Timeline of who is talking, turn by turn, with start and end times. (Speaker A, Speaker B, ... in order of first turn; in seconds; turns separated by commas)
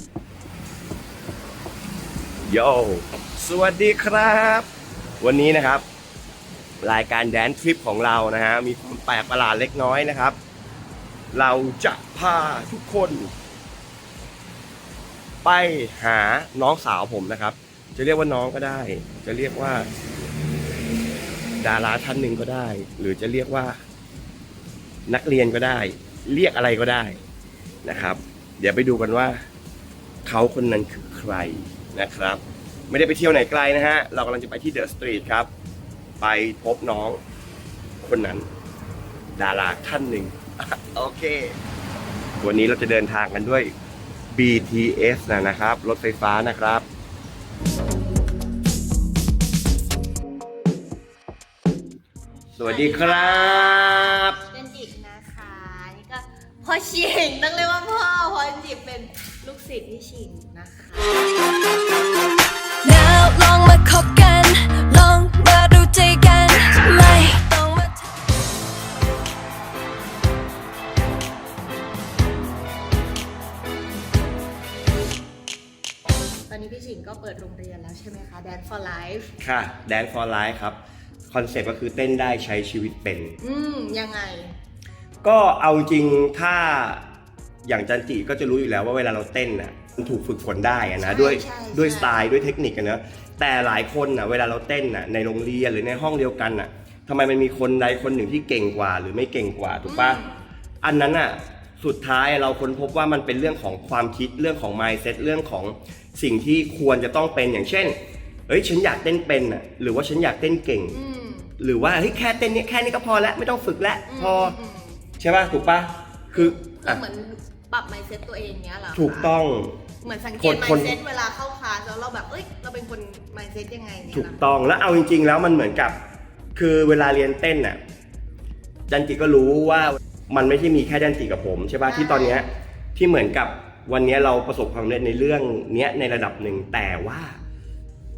Speaker A: 2.5-4.7, Speaker A: 5.2-5.8, Speaker A: 6.8-10.4, Speaker A: 11.3-13.3, Speaker A: 15.4-19.9, Speaker A: 21.6-23.8, Speaker A: 25.1-27.2, Speaker A: 27.8-29.4, Speaker A: 30.2-35.5, Speaker A: 36.2-37.2, Speaker A: 38.0-38.5, Speaker A: 39.4-41.6, Speaker A: 42.4-43.7, Speaker A: 44.3-46.9, Speaker A: 52.6-54.4, Speaker B: 52.6-61.2, Speaker C: 62.8-68.0, Speaker B: 76.5-79.3, Speaker A: 79.4-80.8, Speaker A: 81.3-83.4, Speaker B: 83.4-84.5, Speaker A: 85.2-87.0, Speaker A: 87.6-100.2, Speaker B: 91.0-92.2, Speaker B: 99.8-100.4, Speaker A: 100.8-111.0, Speaker B: 110.9-111.5, Speaker A: 111.6-114.6, Speaker B: 114.1-115.0, Speaker A: 115.2-117.0, Speaker B: 116.3-119.3, Speaker A: 119.0-119.8, Speaker B: 120.0-124.5, Speaker A: 120.4-121.0, Speaker A: 124.1-126.0, Speaker A: 126.5-127.8, Speaker A: 128.9-137.4, Speaker B: 131.9-132.5